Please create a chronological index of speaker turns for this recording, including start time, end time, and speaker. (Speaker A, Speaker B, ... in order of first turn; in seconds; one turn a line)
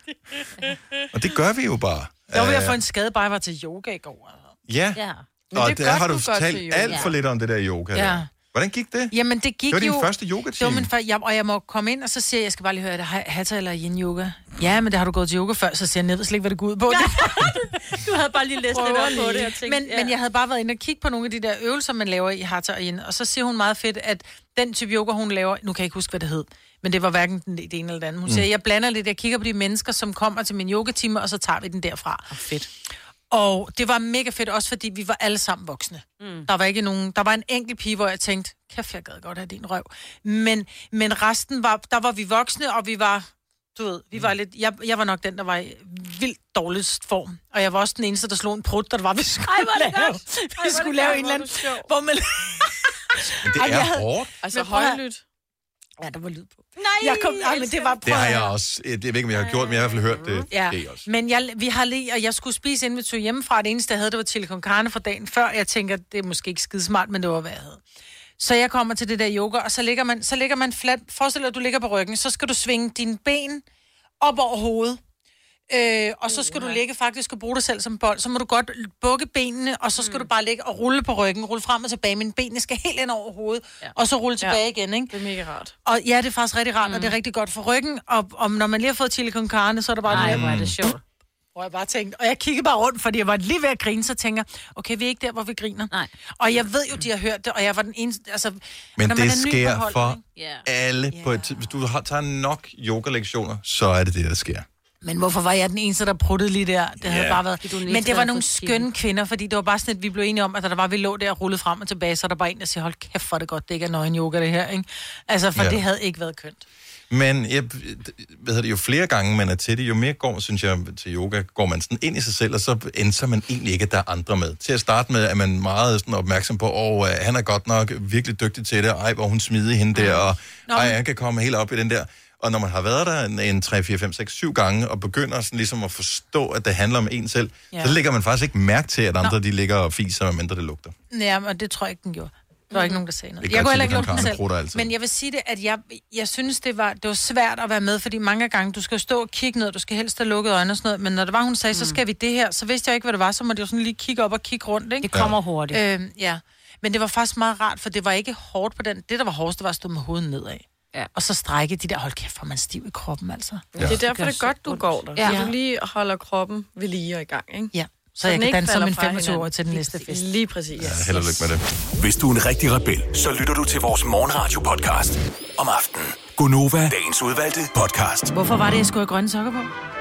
Speaker A: 1.1-2.8
Speaker B: 2.3-4.5
Speaker A: 4.7-9.2
Speaker C: 5.0-5.3
Speaker D: 5.5-7.1
Speaker C: 6.9-7.2
Speaker B: 7.9-8.3
Speaker B: 9.1-17.6
Speaker A: 9.7-10.9
Speaker C: 16.9-20.1
Speaker B: 18.7-32.3
Speaker C: 32.3-32.7
Speaker B: 33.3-55.0
Speaker C: 36.2-36.5
Speaker C: 49.5-51.2
Speaker D: 50.8-51.9
Speaker A: 53.4-54.3
Speaker D: 54.4-55.2
Speaker B: 56.0-58.5
Speaker C: 56.8-58.3
Speaker A: 58.0-61.1
Speaker C: 59.4-60.2
Speaker B: 60.5-67.8
Speaker B: 68.4-73.6
Speaker B: 74.2-75.0
Speaker B: 75.7-85.1
Speaker D: 76.3-76.8
Speaker C: 80.0-80.3
Speaker D: 84.4-85.8
Speaker B: 85.8-91.0
Speaker C: 86.8-87.2
Speaker C: 90.1-91.0
Speaker A: 90.1-90.8
Speaker B: 91.5-100.2
Speaker A: 99.0-104.7
Speaker C: 100.3-100.7
Speaker B: 101.1-101.7
Speaker B: 105.0-116.7
Speaker A: 107.0-107.4
Speaker C: 107.6-108.9
Speaker A: 115.5-115.8
Speaker A: 117.1-140.9
Speaker B: 130.7-131.0
Speaker B: 137.7-138.0
Speaker B: 141.1-155.1
Speaker C: 142.7-143.0
Speaker A: 143.4-144.9
Speaker C: 151.7-152.0
Speaker C: 155.0-155.8
Speaker A: 155.1-155.4
Speaker B: 155.7-163.7
Speaker D: 163.7-169.5
Speaker C: 163.9-165.5
Speaker B: 165.2-165.5
Speaker B: 167.7-170.3
Speaker C: 169.7-170.1
Speaker D: 170.1-171.1
Speaker A: 170.8-171.6
Speaker C: 170.8-171.5
Speaker E: 172.0-178.3
Speaker B: 178.3-179.7